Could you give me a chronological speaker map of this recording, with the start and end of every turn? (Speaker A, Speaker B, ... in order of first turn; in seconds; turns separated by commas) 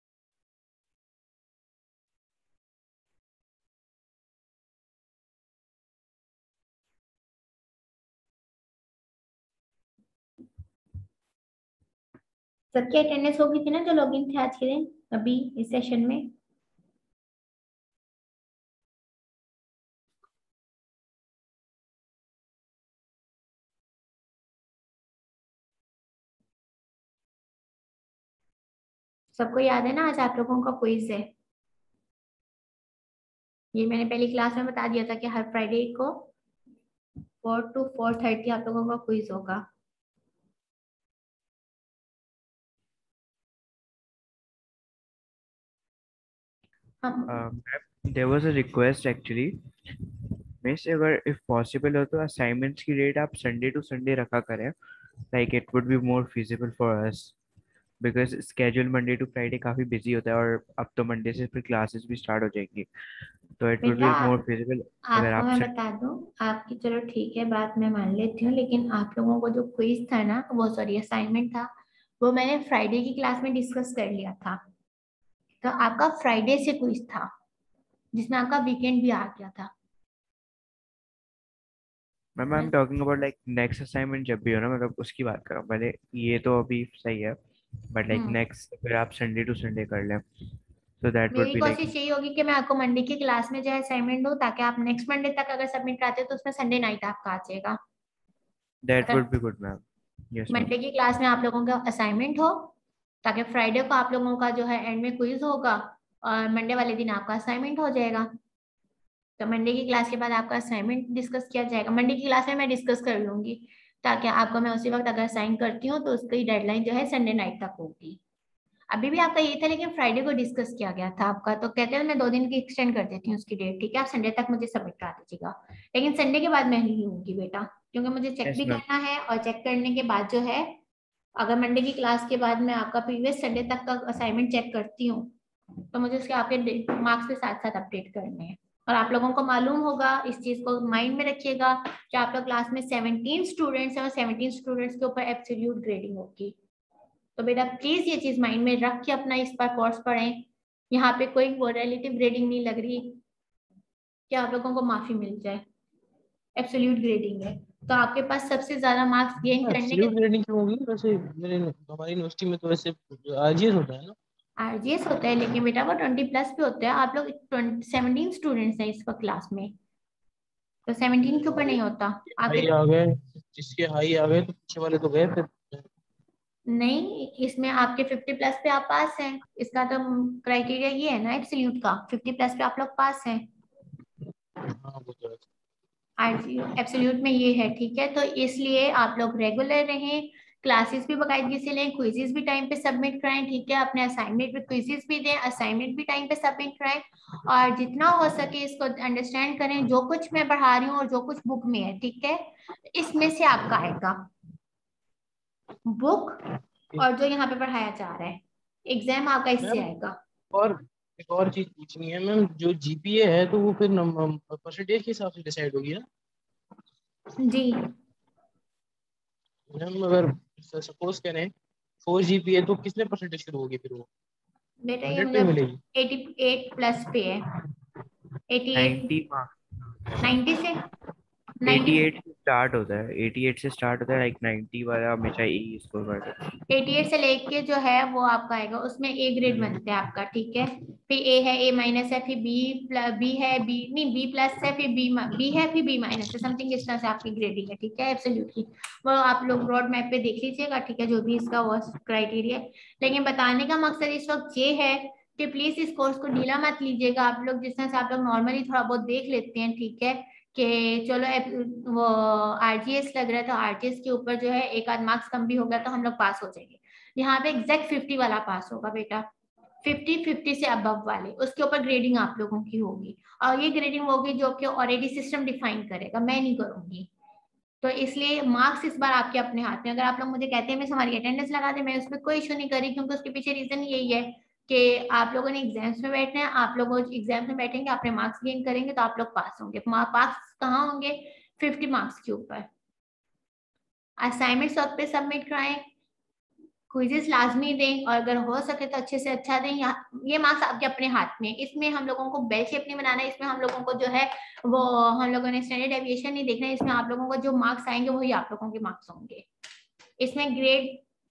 Speaker A: 12.7-16.3, Speaker A: 29.4-31.3, Speaker A: 33.7-36.3, Speaker A: 37.4-39.6, Speaker A: 47.0-47.4, Speaker B: 47.3-49.6, Speaker B: 50.6-54.8, Speaker B: 55.3-57.4, Speaker B: 58.0-62.9, Speaker B: 63.6-65.7, Speaker A: 63.8-64.3, Speaker A: 65.0-74.6, Speaker A: 75.6-77.3, Speaker A: 78.1-79.7, Speaker B: 82.4-87.4, Speaker B: 87.9-90.2, Speaker A: 88.1-88.4, Speaker B: 91.0-91.9, Speaker A: 91.3-97.8, Speaker B: 98.8-100.7, Speaker A: 100.5-102.7, Speaker A: 103.2-108.3, Speaker A: 109.4-118.2, Speaker A: 118.9-130.8, Speaker B: 128.5-128.8, Speaker A: 131.4-135.3, Speaker A: 135.9-146.6, Speaker A: 147.4-153.2, Speaker A: 154.3-155.6, Speaker A: 156.6-160.1, Speaker C: 159.6-164.2, Speaker A: 164.6-169.7, Speaker A: 170.9-172.7, Speaker C: 172.4-175.9, Speaker A: 176.7-183.4, Speaker C: 184.7-185.4, Speaker A: 186.2-204.3, Speaker A: 205.9-206.4, Speaker A: 207.0-210.2, Speaker C: 210.5-216.0, Speaker A: 217.4-217.9, Speaker C: 219.7-221.5, Speaker C: 222.0-224.1, Speaker A: 224.8-227.5, Speaker C: 225.1-225.8, Speaker A: 228.5-229.1, Speaker B: 228.8-229.5, Speaker A: 230.2-230.8, Speaker A: 231.6-232.1, Speaker B: 231.7-236.3, Speaker A: 236.7-269.3, Speaker A: 269.8-277.1, Speaker A: 277.8-292.7, Speaker A: 294.2-295.8, Speaker A: 296.9-309.5, Speaker A: 310.2-311.0